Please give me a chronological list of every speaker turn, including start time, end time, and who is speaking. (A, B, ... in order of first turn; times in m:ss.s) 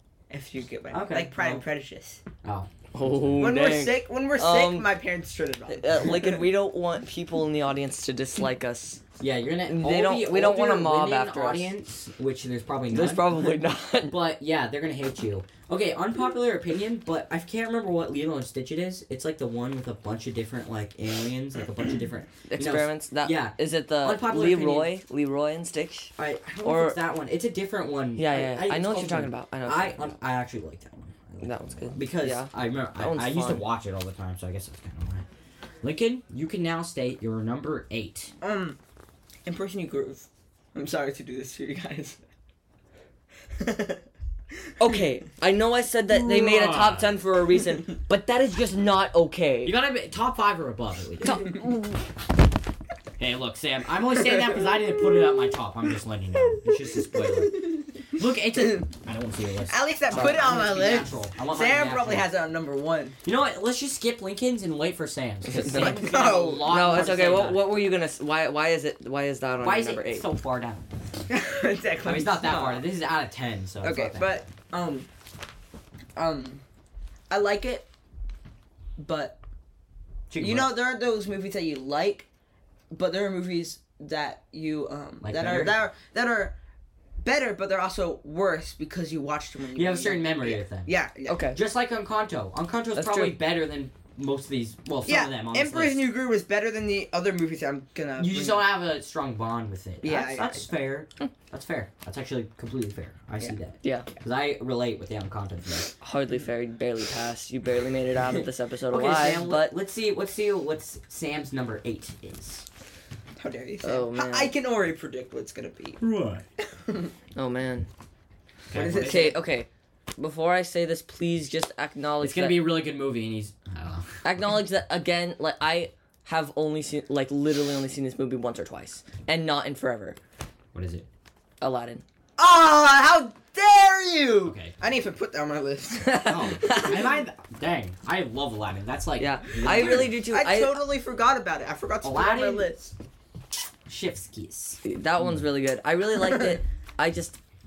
0:00.3-0:02.2 A
0:00.9-0:01.6 B
0:02.4-0:03.5 B
0:02.9-0:04.9 C
0:03.4-0:06.5 A
0:05.7-0:09.0 C
0:09.2-0:24.9 B
0:09.6-0:11.7 C
0:12.9-0:14.2 C
0:22.5-0:27.0 C
0:26.2-0:35.2 B
0:28.2-0:30.1 C
0:31.4-0:33.6 C
0:35.8-0:38.3 B
0:38.4-0:38.8 A
0:39.4-0:42.2 A
0:43.6-0:44.0 A
0:44.8-0:49.7 C
0:46.1-0:47.2 B
0:49.6-0:51.6 B
0:51.2-0:52.0 C
0:53.2-1:02.3 B
0:56.4-0:57.9 A
0:58.5-0:58.8 A
0:59.6-1:03.2 A
1:03.2-1:07.7 B
1:05.5-1:10.3 C
1:05.7-1:06.9 A
1:09.6-1:10.9 B
1:11.3-1:12.9 A
1:12.0-1:14.4 B
1:13.8-1:15.1 A
1:16.2-1:16.6 A
1:17.3-1:17.9 A
1:19.0-1:19.4 A
1:20.3-1:20.7 B
1:20.4-1:22.3 A
1:22.9-1:26.6 A
1:25.2-1:25.8 B
1:27.2-1:31.5 A
1:29.7-1:30.9 B
1:31.2-1:31.6 C
1:31.5-1:36.1 B
1:33.0-1:33.3 C
1:35.0-1:38.7 A
1:38.2-1:45.9 B
1:40.0-1:40.7 A
1:46.0-1:49.7 C
1:48.9-1:52.6 B
1:53.4-1:56.0 A
1:53.8-1:54.5 C
1:56.0-1:56.4 B
1:56.8-1:57.1 A
1:57.4-1:57.9 C
1:58.7-1:59.4 B
1:58.7-1:59.4 A
1:59.0-2:02.6 C
2:02.2-2:04.2 B
2:04.2-2:10.2 C
2:10.7-2:11.1 B
2:11.6-2:12.0 C
2:12.4-2:16.8 A
2:14.4-2:14.7 B
2:16.0-2:16.9 C
2:16.2-2:20.2 B
2:19.2-2:20.8 C
2:19.6-2:22.9 A
2:22.0-2:22.8 B
2:23.9-2:25.5 B
2:24.8-2:27.4 C